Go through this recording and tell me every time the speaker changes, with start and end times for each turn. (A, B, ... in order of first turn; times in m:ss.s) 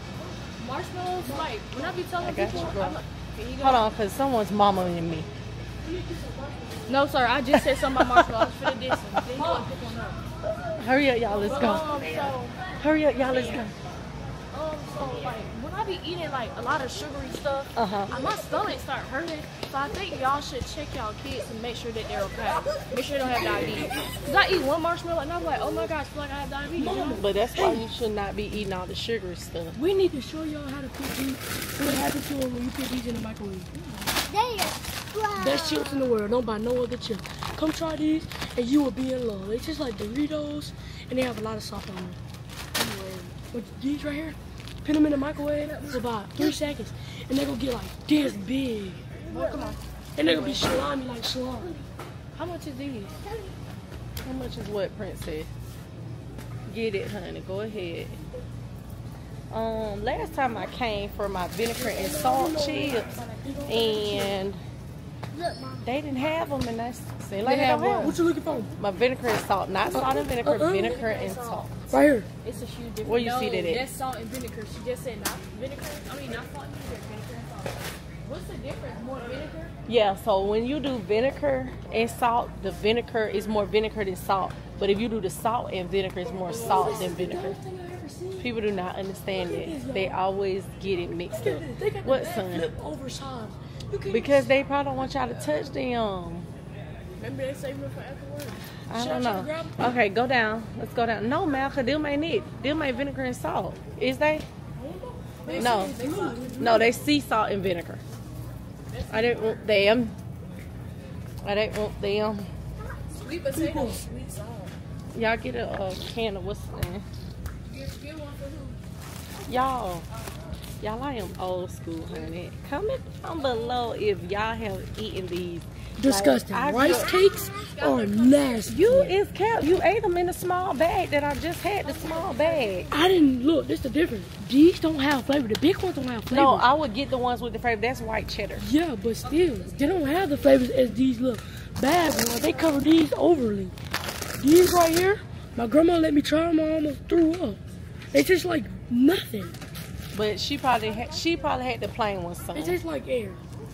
0:00.6-0:03.9 A
0:02.2-0:03.0 B
0:03.6-0:05.3 B
0:05.9-0:06.8 C
0:06.9-0:10.2 A
0:07.6-0:08.4 B
0:10.5-0:11.9 B
0:11.4-0:12.6 A
0:11.6-0:12.0 C
0:12.8-0:13.7 B
0:14.5-0:27.2 A
0:17.8-0:18.1 B
0:26.8-0:29.8 B
0:26.8-0:27.8 C
0:29.8-0:33.7 C
0:33.7-0:34.2 A
0:34.3-0:36.2 D
0:35.4-0:42.2 C
0:42.8-0:43.4 A
0:43.5-0:49.0 C
0:49.2-0:49.8 D
0:49.3-0:50.6 A
0:50.2-0:51.7 C
0:50.3-0:50.6 B
0:52.4-0:53.2 A
0:53.3-0:53.5 D
0:54.2-0:55.5 B
0:56.7-0:58.2 B
0:59.5-1:03.1 B
1:01.8-1:04.4 C
1:03.7-1:04.6 B
1:05.3-1:05.9 D
1:05.8-1:08.2 B
1:07.5-1:08.7 C
1:07.8-1:08.1 A
1:08.8-1:11.8 B
1:09.9-1:11.0 C
1:10.7-1:11.9 A
1:11.9-1:12.3 C
1:12.4-1:19.7 A
1:13.0-1:13.8 B
1:19.9-1:27.6 B
1:26.5-1:28.5 C
1:26.5-1:27.1 A
1:28.4-1:32.7 B
1:29.3-1:30.2 C
1:31.3-1:34.5 C
1:34.1-1:36.5 B
1:37.2-1:38.6 A
1:38.9-1:44.5 B
1:38.9-1:39.8 C
1:44.8-1:47.0 C
1:45.4-1:46.6 A
1:45.6-1:45.9 B
1:46.6-1:48.0 B
1:48.9-1:49.6 A
1:49.1-1:50.2 B
1:51.4-1:52.5 B
1:53.2-1:54.8 A
1:53.5-1:54.0 C
1:55.1-1:57.0 B
1:57.6-1:58.8 A
1:59.5-2:00.1 B
2:00.8-2:07.2 B
2:06.0-2:09.2 C
2:06.8-2:07.7 D
2:07.6-2:08.9 A
2:08.7-2:12.9 B
2:11.8-2:13.0 A
2:12.9-2:16.7 C
2:16.3-2:18.7 B
2:18.6-2:23.8 C
2:19.2-2:20.3 A
2:24.4-2:27.6 C
2:28.1-2:29.6 C
2:30.1-2:32.8 B
2:31.0-2:31.4 A
2:32.6-2:33.4 C